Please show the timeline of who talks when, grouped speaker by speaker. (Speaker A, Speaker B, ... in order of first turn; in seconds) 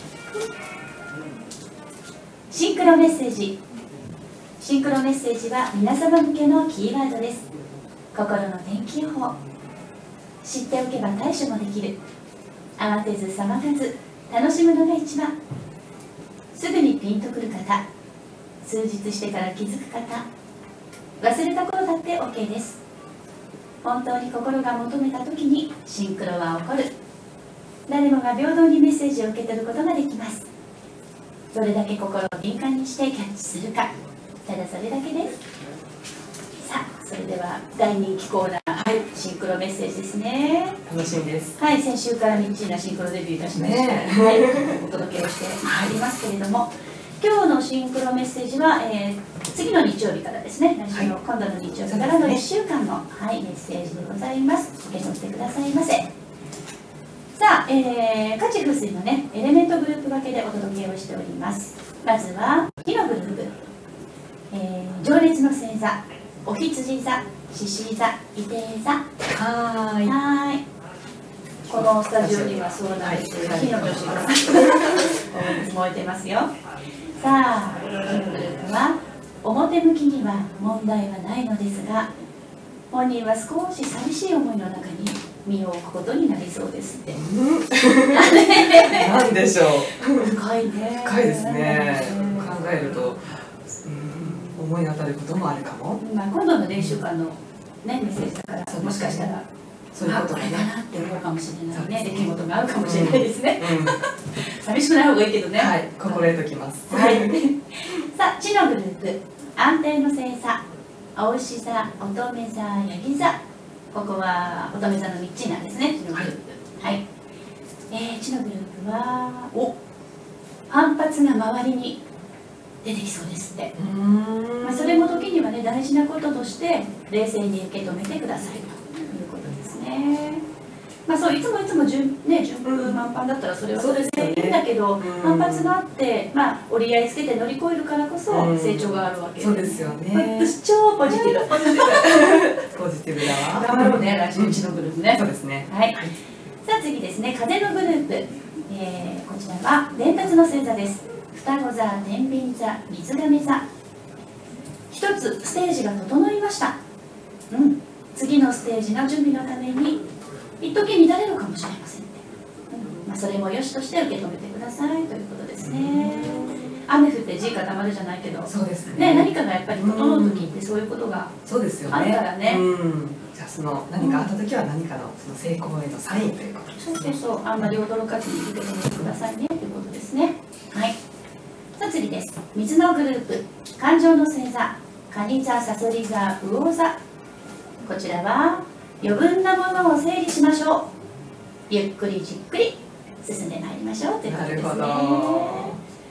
Speaker A: 2.5-3.6, 4.6-7.5, 8.1-9.3, 10.4-12.0, 12.8-15.3, 16.5-17.8, 18.6-20.2, 21.2-22.8, 23.8-26.9, 27.9-30.5, 31.5-33.9, 34.5-35.4, 36.6-40.8, 41.6-46.7, 47.2-56.1, 57.4-63.6, 64.5-69.0, 70.0-70.6, 71.7-76.5, 77.2-82.1, 82.9-87.2, 88.1-89.3, 90.1-93.0, 94.2-94.6, 96.0-99.4, 100.0-106.3, 106.9-110.6, 111.2-113.4, 113.9-117.0, 117.9-119.7, 120.7-122.0, 122.8-123.7, 124.6-130.4, 131.1-142.6, 143.2-146.0, 146.6-153.6, 154.9-156.8, 157.5-160.0, 160.6-171.3, 171.9-172.6, 174.0-174.3, 176.8-180.9, 181.8-187.0, 187.8-190.9, 191.7-195.8
Speaker B: 40.9-41.6, 43.5-44.8, 45.6-45.9, 51.9-52.4, 69.3-70.2, 71.7-75.1, 87.1-90.4, 91.0-96.0, 98.7-99.3, 99.9-101.1, 101.7-104.0, 105.6-107.4, 123.8-125.4, 132.7-133.0, 133.8-135.8, 138.3-146.2, 165.6-166.6, 168.5-170.5, 171.5-177.7, 194.2-195.8